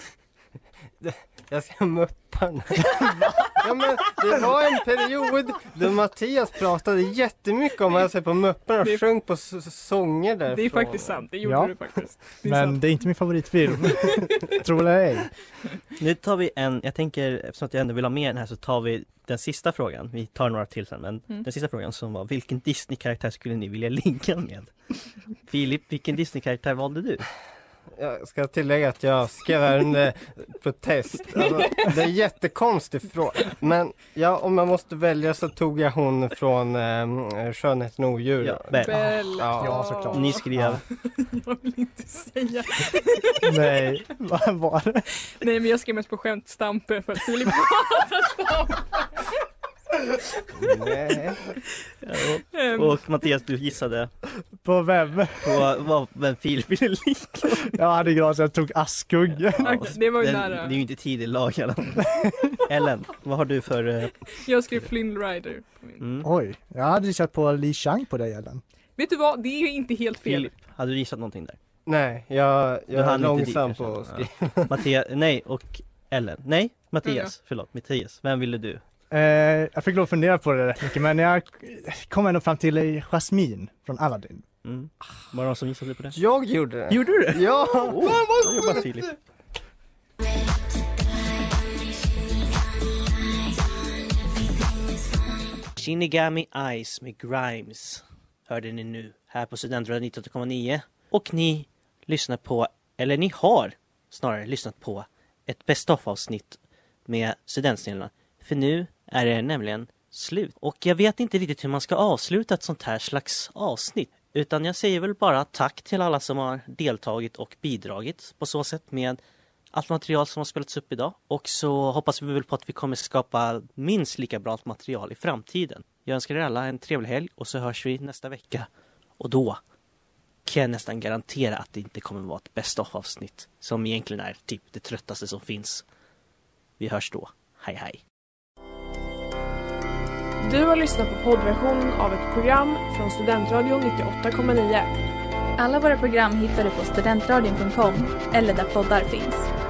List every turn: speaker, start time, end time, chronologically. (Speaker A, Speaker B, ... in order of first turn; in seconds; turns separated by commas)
Speaker A: 1.0-11.2, Speaker B: 2.8-3.6, Speaker C: 10.5-12.8, Speaker B: 11.4-11.8, Speaker B: 12.4-15.3, Speaker D: 16.0-24.7, Speaker D: 25.4-27.2, Speaker A: 27.9-39.8, Speaker C: 31.4-31.9, Speaker D: 38.4-39.5, Speaker C: 38.7-43.5, Speaker B: 39.5-40.8, Speaker D: 40.1-40.8, Speaker B: 43.4-45.0, Speaker C: 45.4-49.2, Speaker A: 50.6-51.4, Speaker D: 52.0-54.1, Speaker C: 52.5-53.0, Speaker B: 54.6-55.7, Speaker D: 55.4-57.7, Speaker B: 57.7-60.0, Speaker D: 59.6-62.1, Speaker C: 59.6-60.8, Speaker B: 62.0-62.5, Speaker D: 62.6-64.1, Speaker C: 64.4-66.0, Speaker D: 66.0-66.2, Speaker B: 66.2-68.6, Speaker C: 69.0-70.6, Speaker D: 70.2-71.6, Speaker A: 71.8-74.7, Speaker D: 72.9-78.8, Speaker C: 77.0-77.3, Speaker B: 79.1-84.4, Speaker D: 84.6-86.2, Speaker A: 86.1-88.6, Speaker D: 86.9-89.1, Speaker D: 95.8-119.2, Speaker D: 119.7-129.6, Speaker D: 130.4-135.8, Speaker D: 136.8-138.0, Speaker E: 140.4-144.9, Speaker F: 145.6-149.5